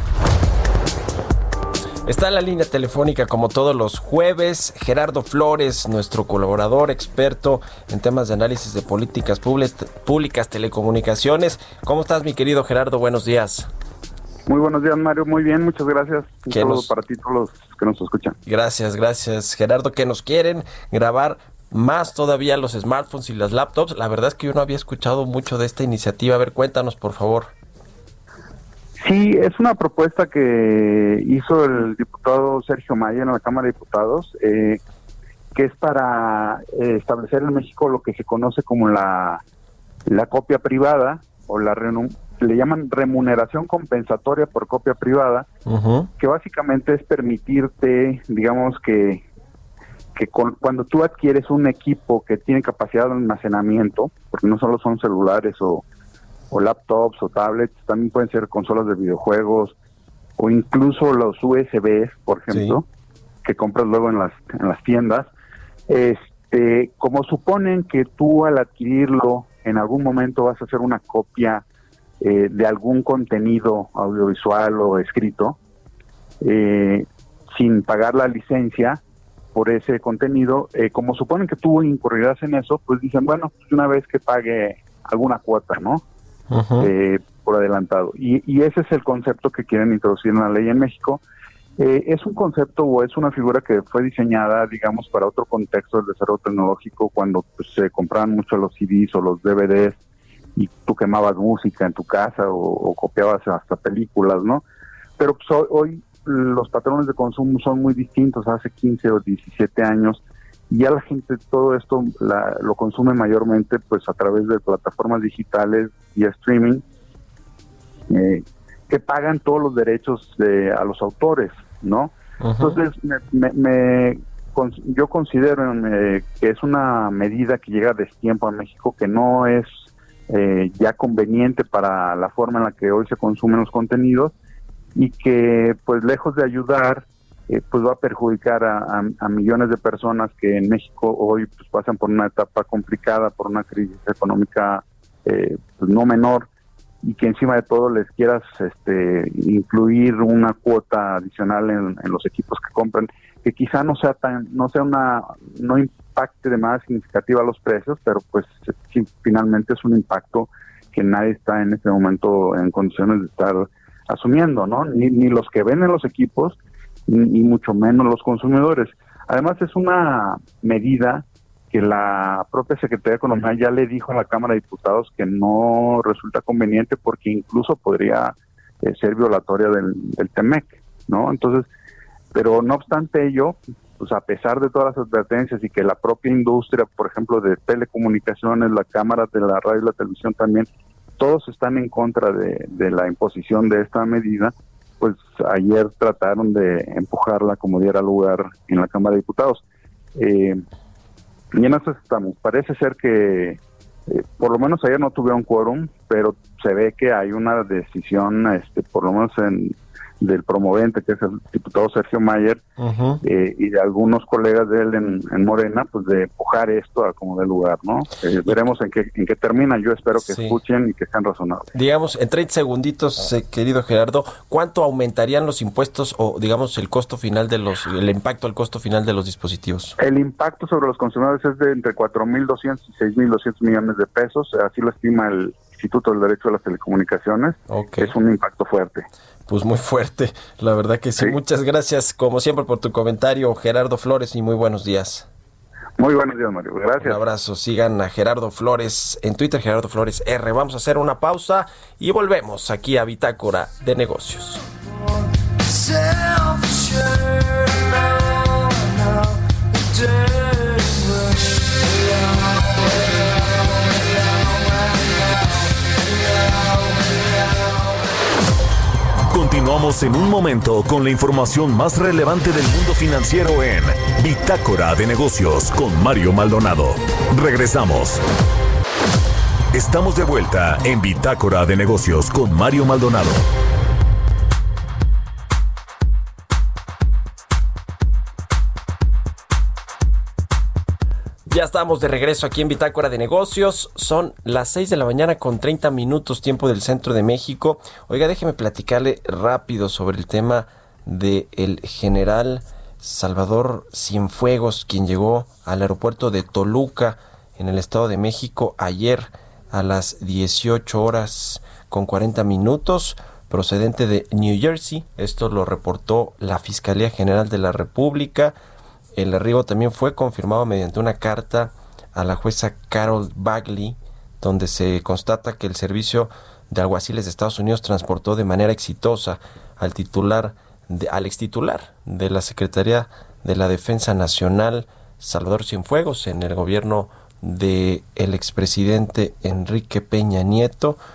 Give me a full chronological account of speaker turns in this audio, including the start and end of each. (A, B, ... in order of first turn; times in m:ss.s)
0:02.0-0:13.7 A
0:14.5-0:18.4 B
0:16.5-0:16.9 A
0:18.5-0:27.5 A
0:29.0-0:34.8 B
0:35.6-0:39.4 B
0:40.1-0:45.5 B
0:45.7-0:46.1 A
0:46.2-0:49.2 B
0:50.2-0:55.8 B
0:56.5-0:59.7 B
1:00.4-1:02.9 B
1:02.5-1:02.8 A
1:03.4-1:05.3 B
1:05.9-1:11.6 B
1:12.2-1:15.6 B
1:16.4-1:19.0 B
1:19.6-1:26.0 B
1:26.5-1:26.9 A
1:26.8-1:31.2 B
1:31.8-1:40.0 B
1:40.6-1:44.6 B
1:45.2-1:56.8 B
1:58.1-2:09.7 B
2:02.4-2:02.8 A
2:10.3-2:14.3 B
2:15.0-2:26.5 B
2:27.0-3:01.7 B
3:02.3-3:10.7 B
3:11.2-3:19.6 B
3:20.2-3:20.6 B
3:21.5-3:32.6 B
3:32.8-3:33.2 A
3:33.2-3:41.7 B
3:40.2-3:40.6 A
3:41.7-3:50.0 A
3:50.0-3:59.1 B
3:57.7-3:58.1 A
3:59.5-4:05.3 A
4:06.0-4:07.2 B
4:07.0-4:14.6 A
4:29.3-4:38.2 C
4:39.7-4:43.4 C
4:51.5-5:18.6 A
5:19.2-5:41.0 A